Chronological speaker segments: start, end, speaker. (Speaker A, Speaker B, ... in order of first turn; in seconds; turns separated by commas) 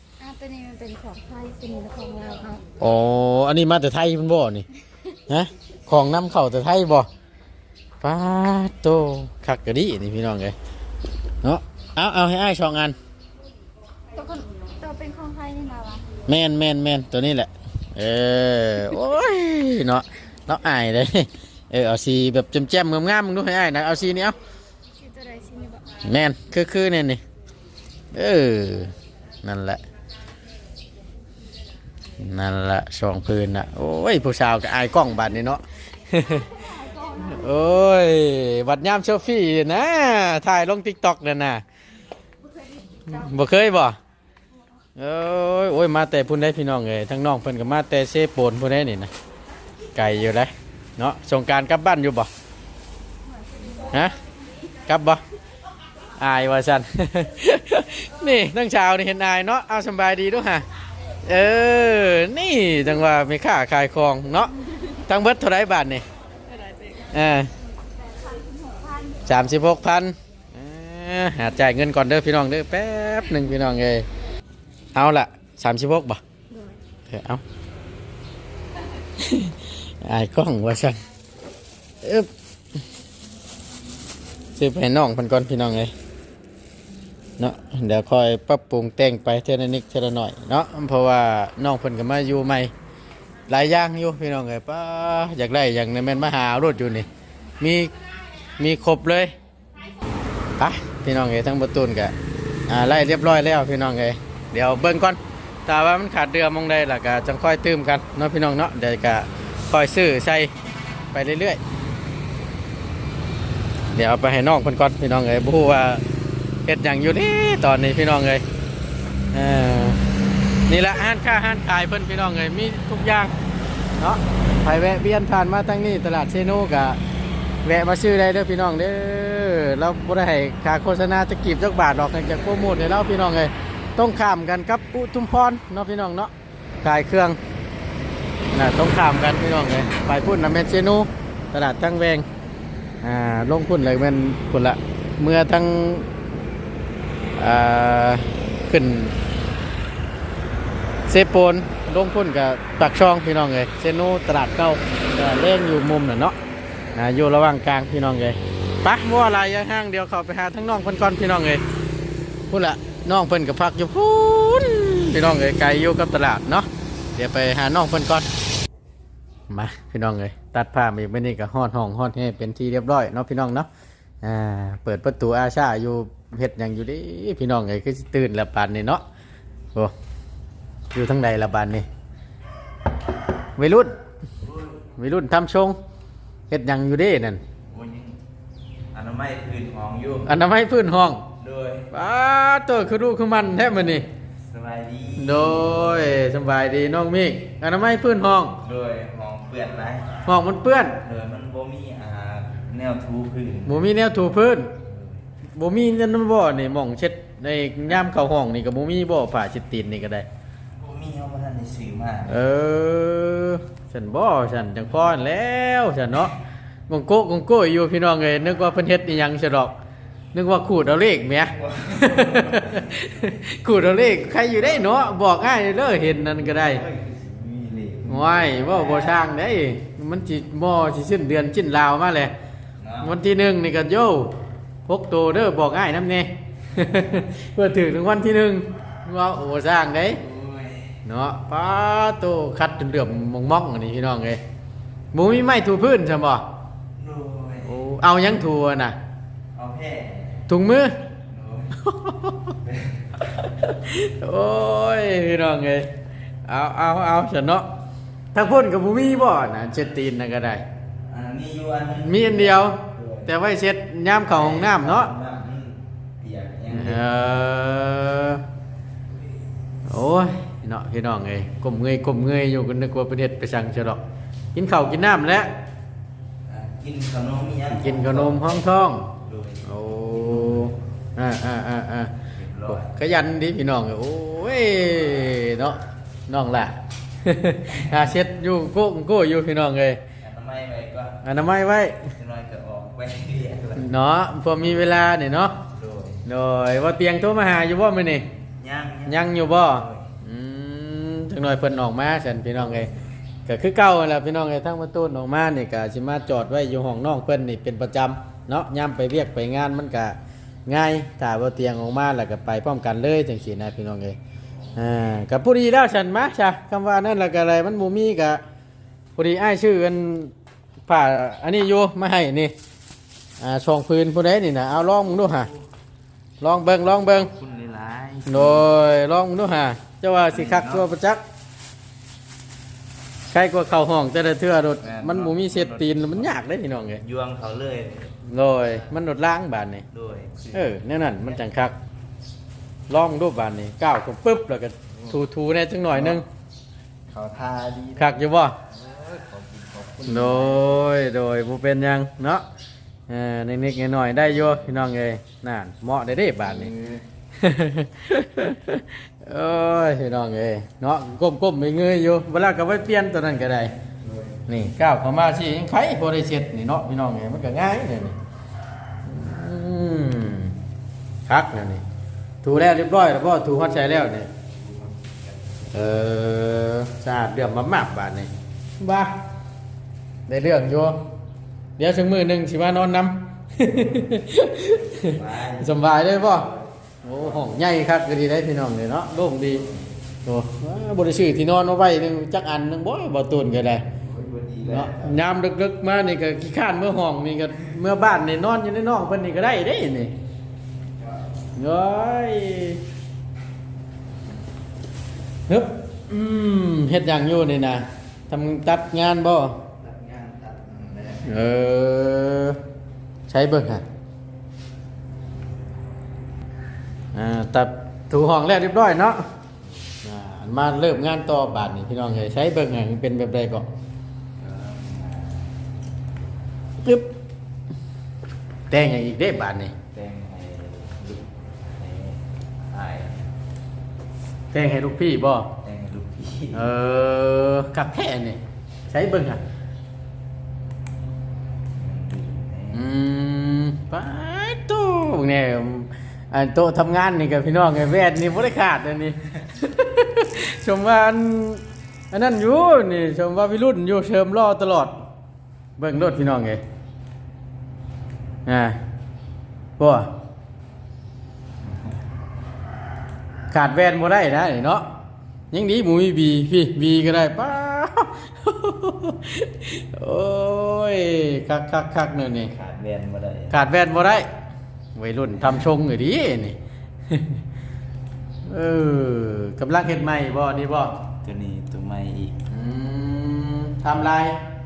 Speaker A: 0.2-2.6, Speaker B: 2.8-4.7, Speaker B: 5.3-7.1, Speaker B: 8.0-10.5, Speaker B: 11.4-12.9, Speaker A: 14.2-16.1, Speaker B: 16.3-24.3, Speaker A: 25.0-25.9, Speaker B: 26.0-27.2, Speaker B: 28.1-29.8, Speaker B: 32.2-36.5, Speaker A: 36.2-37.5, Speaker B: 37.2-41.6, Speaker A: 42.4-43.3, Speaker B: 43.1-44.0, Speaker B: 45.0-49.1, Speaker B: 49.9-52.3, Speaker B: 54.9-55.2, Speaker B: 56.2-60.6, Speaker B: 61.2-64.5, Speaker B: 65.1-66.0, Speaker A: 66.5-69.2, Speaker B: 67.1-67.5, Speaker B: 69.2-74.0, Speaker B: 74.9-76.2, Speaker A: 76.5-76.8, Speaker B: 77.1-77.4, Speaker B: 79.2-81.0, Speaker B: 82.0-82.3, Speaker B: 84.5-85.9, Speaker B: 87.4-92.7, Speaker B: 93.5-97.1, Speaker B: 97.6-97.9, Speaker B: 98.6-99.3, Speaker B: 100.6-102.1, Speaker B: 102.7-110.5, Speaker B: 111.1-111.6, Speaker B: 113.9-116.0, Speaker B: 116.7-118.4, Speaker B: 119.3-120.0, Speaker B: 120.7-123.3, Speaker B: 124.0-127.0, Speaker B: 127.6-136.3, Speaker B: 136.8-137.4, Speaker B: 138.5-142.2, Speaker B: 143.0-146.1, Speaker B: 147.4-149.2, Speaker B: 151.1-156.3, Speaker B: 156.9-161.6, Speaker B: 162.5-168.3, Speaker B: 169.5-173.7, Speaker B: 174.2-179.0, Speaker B: 180.9-181.9, Speaker B: 183.6-184.0, Speaker C: 184.4-184.8, Speaker B: 185.0-185.8, Speaker B: 186.5-187.4, Speaker C: 187.7-188.2, Speaker C: 188.9-190.3, Speaker B: 190.2-191.2, Speaker C: 191.4-191.9, Speaker B: 191.9-194.1, Speaker C: 194.4-196.2, Speaker B: 195.2-198.6, Speaker C: 198.6-200.2, Speaker B: 200.2-201.0, Speaker C: 201.0-203.9, Speaker B: 203.7-204.8, Speaker C: 204.8-205.2, Speaker B: 205.6-210.3, Speaker C: 210.8-212.4, Speaker B: 212.3-216.3, Speaker B: 216.9-219.7, Speaker B: 220.3-226.8, Speaker C: 221.6-223.3, Speaker C: 226.1-229.2, Speaker B: 228.1-232.3, Speaker C: 232.8-233.2, Speaker B: 233.0-234.3, Speaker B: 234.9-240.2, Speaker C: 240.1-241.0, Speaker B: 241.0-244.4, Speaker B: 245.1-246.4, Speaker C: 246.9-247.8, Speaker B: 247.6-248.9, Speaker C: 249.5-250.5, Speaker B: 250.5-251.0, Speaker C: 251.2-251.8, Speaker B: 251.8-252.6, Speaker C: 252.6-253.0, Speaker B: 253.6-255.9, Speaker B: 256.4-257.7, Speaker B: 258.3-260.6, Speaker C: 261.0-263.3, Speaker B: 262.0-265.1, Speaker C: 264.2-267.1, Speaker B: 266.7-268.4, Speaker B: 269.8-274.0, Speaker B: 274.5-275.5, Speaker C: 276.4-279.7, Speaker B: 277.7-279.1, Speaker B: 279.6-282.1, Speaker C: 280.3-280.7, Speaker C: 282.3-282.9, Speaker B: 282.7-290.0, Speaker C: 287.7-288.1, Speaker C: 290.2-291.2, Speaker B: 291.2-292.1, Speaker C: 292.1-293.9, Speaker B: 293.8-295.6, Speaker C: 294.5-296.2, Speaker B: 296.2-298.3, Speaker C: 298.6-300.1, Speaker B: 299.1-302.9, Speaker B: 303.5-314.2, Speaker C: 314.6-314.9, Speaker B: 314.7-318.4, Speaker B: 319.1-320.3, Speaker B: 320.9-322.5, Speaker B: 323.4-325.5, Speaker B: 326.4-327.3, Speaker C: 326.9-328.7, Speaker B: 328.2-331.2, Speaker C: 330.3-330.9, Speaker B: 333.3-337.0, Speaker C: 334.8-336.4, Speaker C: 337.0-338.1, Speaker B: 338.3-339.9, Speaker C: 339.9-340.6, Speaker B: 340.5-341.7, Speaker B: 342.9-346.2, Speaker C: 344.9-345.3, Speaker C: 345.9-346.2, Speaker C: 347.1-350.9, Speaker B: 348.0-348.6, Speaker B: 350.1-352.4, Speaker B: 353.1-356.7, Speaker C: 354.4-354.8, Speaker C: 356.4-357.0, Speaker B: 357.4-363.7, Speaker C: 364.0-364.4, Speaker B: 364.5-368.2, Speaker B: 369.0-370.6, Speaker B: 371.3-371.8, Speaker B: 372.4-374.3, Speaker C: 374.4-375.7, Speaker B: 375.7-379.1, Speaker B: 380.3-381.0, Speaker B: 381.8-386.5, Speaker C: 383.7-387.6, Speaker B: 387.0-389.7, Speaker C: 389.5-389.9, Speaker B: 390.2-393.8, Speaker C: 394.0-395.2, Speaker B: 394.6-400.1, Speaker B: 401.5-402.8, Speaker B: 405.5-409.6, Speaker C: 409.8-411.4, Speaker B: 411.2-412.6, Speaker B: 413.3-413.8, Speaker B: 417.1-419.3, Speaker B: 420.0-423.7, Speaker C: 424.4-425.8, Speaker B: 426.8-427.1, Speaker B: 428.7-429.7, Speaker C: 429.9-433.3, Speaker B: 434.5-435.5, Speaker C: 435.6-436.7, Speaker B: 436.5-439.4, Speaker C: 441.7-442.9, Speaker B: 442.7-454.9, Speaker B: 455.8-456.6, Speaker B: 458.4-458.8, Speaker B: 459.8-460.1, Speaker B: 463.5-464.9, Speaker B: 465.5-472.5, Speaker C: 472.4-473.6, Speaker B: 473.5-474.3, Speaker B: 474.9-476.6, Speaker C: 475.4-475.7, Speaker B: 477.1-477.4, Speaker B: 478.4-480.9, Speaker C: 481.2-482.4, Speaker B: 482.5-484.4